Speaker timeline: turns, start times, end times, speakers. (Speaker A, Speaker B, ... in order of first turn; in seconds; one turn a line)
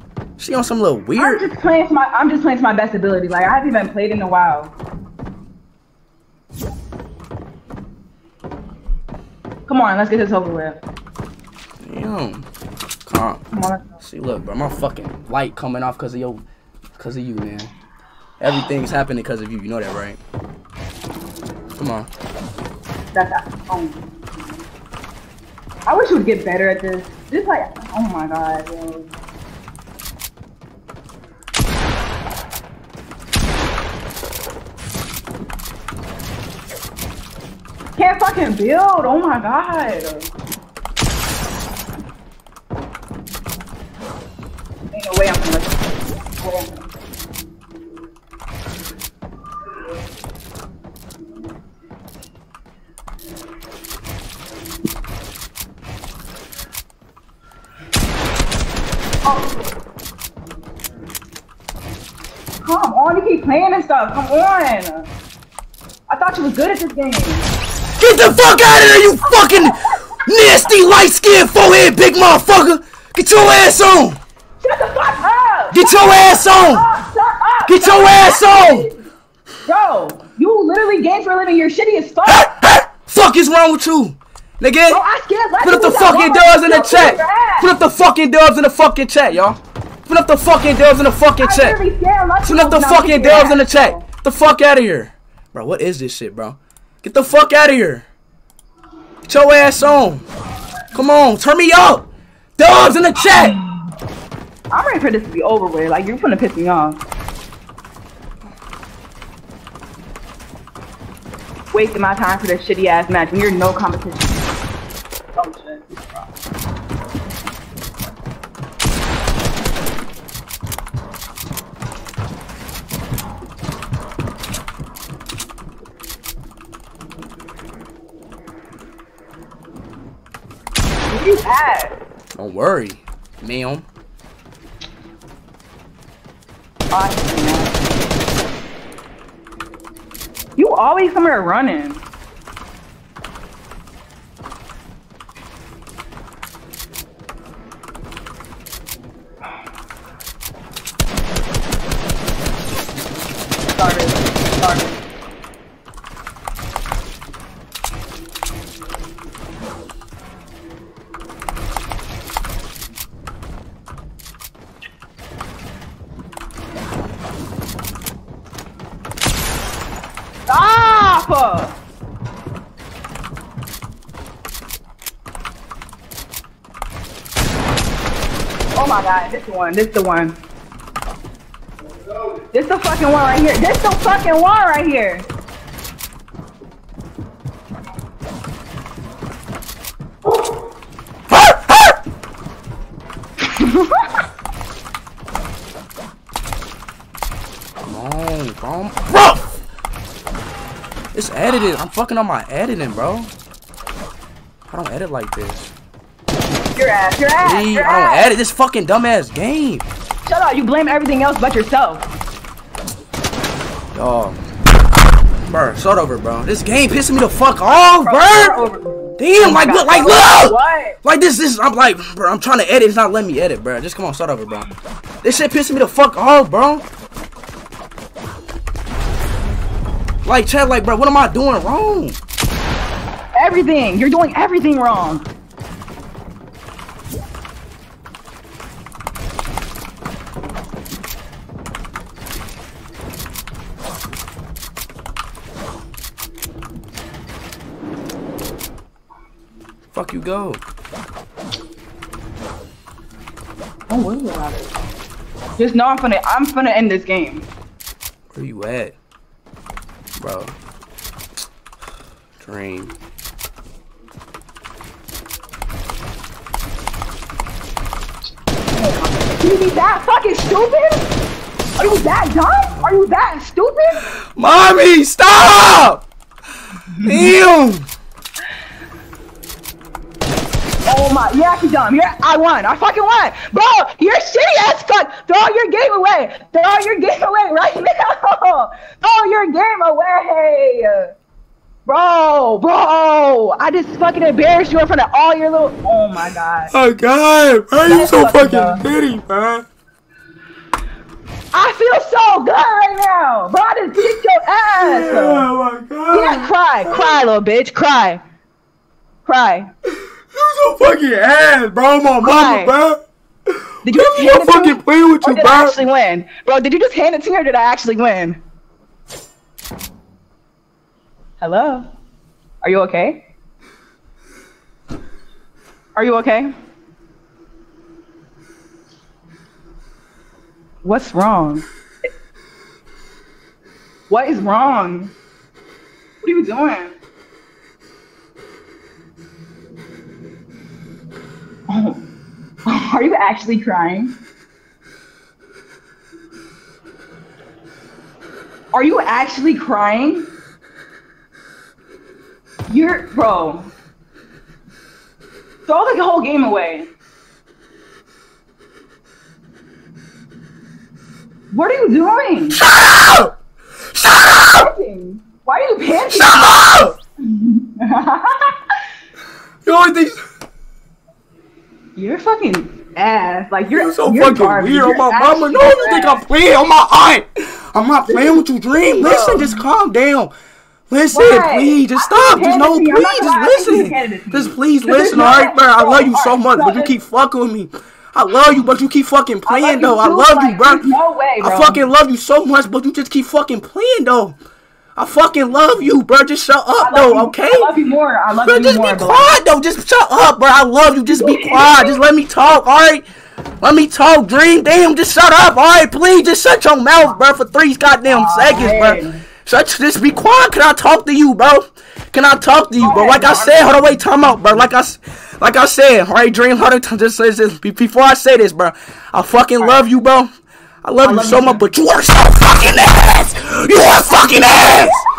Speaker A: 0.4-1.5
Speaker B: 1.2-4.7
Speaker B: 9.7-10.8
Speaker A: 11.8-12.5
Speaker A: 13.1-13.4
Speaker B: 13.5-14.0
Speaker A: 14.0-16.4
Speaker A: 17.0-17.7
Speaker A: 18.4-20.2
Speaker A: 21.8-22.1
Speaker B: 23.1-24.1
Speaker B: 25.9-29.1
Speaker B: 38.0-40.3
Speaker B: 44.9-46.8
Speaker B: 59.2-59.7
Speaker B: 62.6-65.1
Speaker B: 66.1-67.5
Speaker A: 68.0-74.2
Speaker B: 69.2-70.2
Speaker B: 74.6-79.1
Speaker A: 75.7-76.9
Speaker A: 77.7-78.9
Speaker B: 79.7-82.5
Speaker A: 82.3-85.0
Speaker B: 84.9-87.7
Speaker A: 85.6-91.8
Speaker B: 91.4-94.0
Speaker A: 92.4-98.0
Speaker A: 99.2-100.2
Speaker A: 100.9-103.6
Speaker B: 104.7-107.0
Speaker B: 111.7-114.5
Speaker B: 115.3-116.3
Speaker B: 131.1-131.9
Speaker A: 132.3-133.8
Speaker B: 136.9-137.9
Speaker B: 140.6-142.0
Speaker B: 153.8-155.0
Speaker B: 170.5-171.8
Speaker B: 178.8-180.4
Speaker B: 182.5-185.2
Speaker A: 191.3-191.9
Speaker B: 193.4-194.1
Speaker A: 197.8-199.6
Speaker A: 201.1-203.3
Speaker A: 204.7-205.7
Speaker B: 206.8-208.3
Speaker A: 207.4-209.8
Speaker B: 210.2-212.1
Speaker A: 213.9-214.4
Speaker A: 215.4-218.6
Speaker B: 218.0-221.0
Speaker A: 219.2-224.7
Speaker A: 225.2-226.8
Speaker A: 230.2-232.2
Speaker B: 233.4-235.3
Speaker A: 249.9-250.6
Speaker B: 253.9-254.7
Speaker B: 255.6-257.5
Speaker A: 258.3-258.9
Speaker A: 260.2-260.5
Speaker A: 262.4-262.9
Speaker B: 268.7-271.1
Speaker B: 271.8-274.1
Speaker A: 274.3-276.1
Speaker A: 277.0-277.9
Speaker B: 280.9-291.1
Speaker B: 291.9-296.7
Speaker A: 296.7-299.6
Speaker B: 297.8-298.8
Speaker B: 301.5-305.5
Speaker A: 304.7-307.2
Speaker B: 306.1-308.2
Speaker B: 309.2-309.7
Speaker A: 310.3-313.0
Speaker B: 312.2-312.7
Speaker B: 313.8-318.4
Speaker A: 313.9-315.8
Speaker B: 321.4-321.9
Speaker B: 322.6-323.2
Speaker B: 325.9-326.5
Speaker B: 330.8-331.6
Speaker B: 334.1-335.1
Speaker B: 336.2-336.9
Speaker B: 341.7-342.0
Speaker B: 342.6-344.1
Speaker B: 348.7-350.3
Speaker B: 352.7-353.7
Speaker B: 355.6-356.9
Speaker B: 361.5-362.6
Speaker A: 362.6-363.3
Speaker A: 363.9-364.7
Speaker B: 364.4-366.7
Speaker A: 366.1-366.9
Speaker B: 367.2-368.6
Speaker A: 369.6-370.2
Speaker B: 371.9-376.2
Speaker A: 373.7-380.3
Speaker B: 378.1-379.6
Speaker A: 380.9-390.9
Speaker B: 381.1-386.9
Speaker B: 389.4-391.8
Speaker A: 391.4-394.4
Speaker A: 395.0-397.7
Speaker B: 396.8-399.4
Speaker A: 398.4-403.0
Speaker B: 401.1-402.0
Speaker A: 403.6-420.3
Speaker B: 408.1-409.2
Speaker B: 412.8-414.0
Speaker B: 419.6-419.8
Speaker A: 420.8-425.0
Speaker B: 421.0-421.6